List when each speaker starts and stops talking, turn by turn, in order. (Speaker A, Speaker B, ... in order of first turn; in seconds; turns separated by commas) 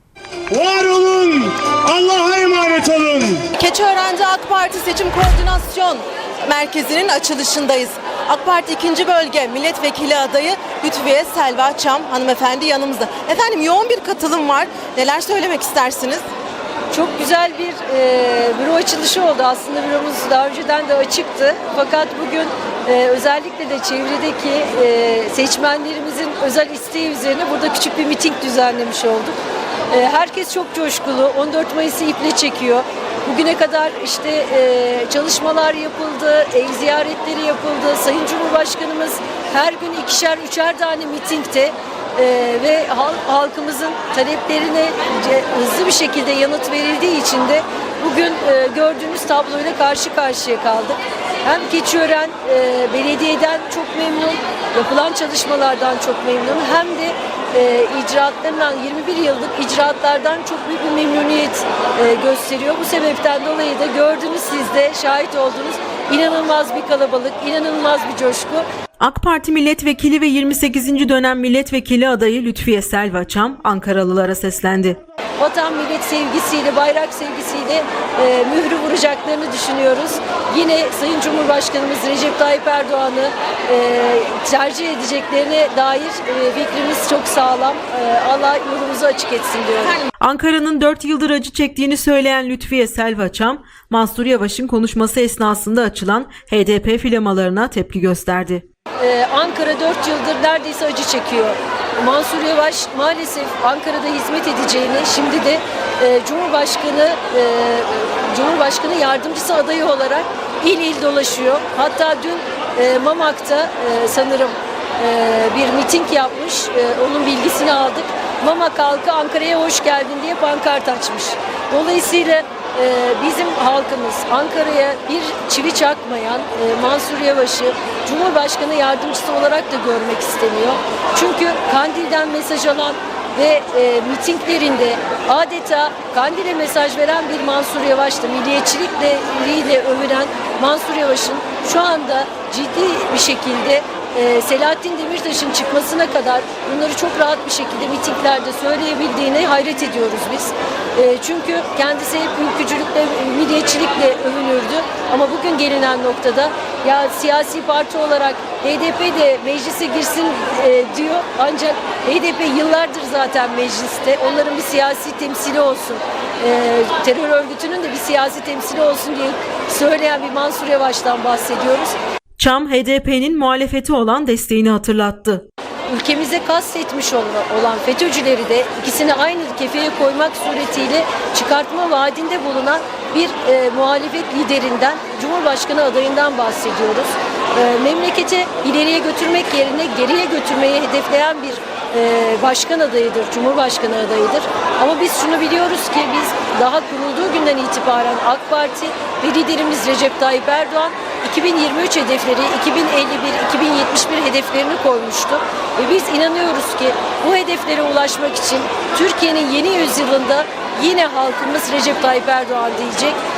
Speaker A: 0.5-3.5, Speaker B: 3.5-16.2, Speaker C: 16.9-29.4, Speaker C: 29.9-68.7, Speaker D: 69.0-75.0, Speaker C: 75.4-90.0, Speaker D: 90.2-98.6, Speaker C: 99.0-172.0, Speaker D: 172.4-175.4, Speaker C: 175.9-213.2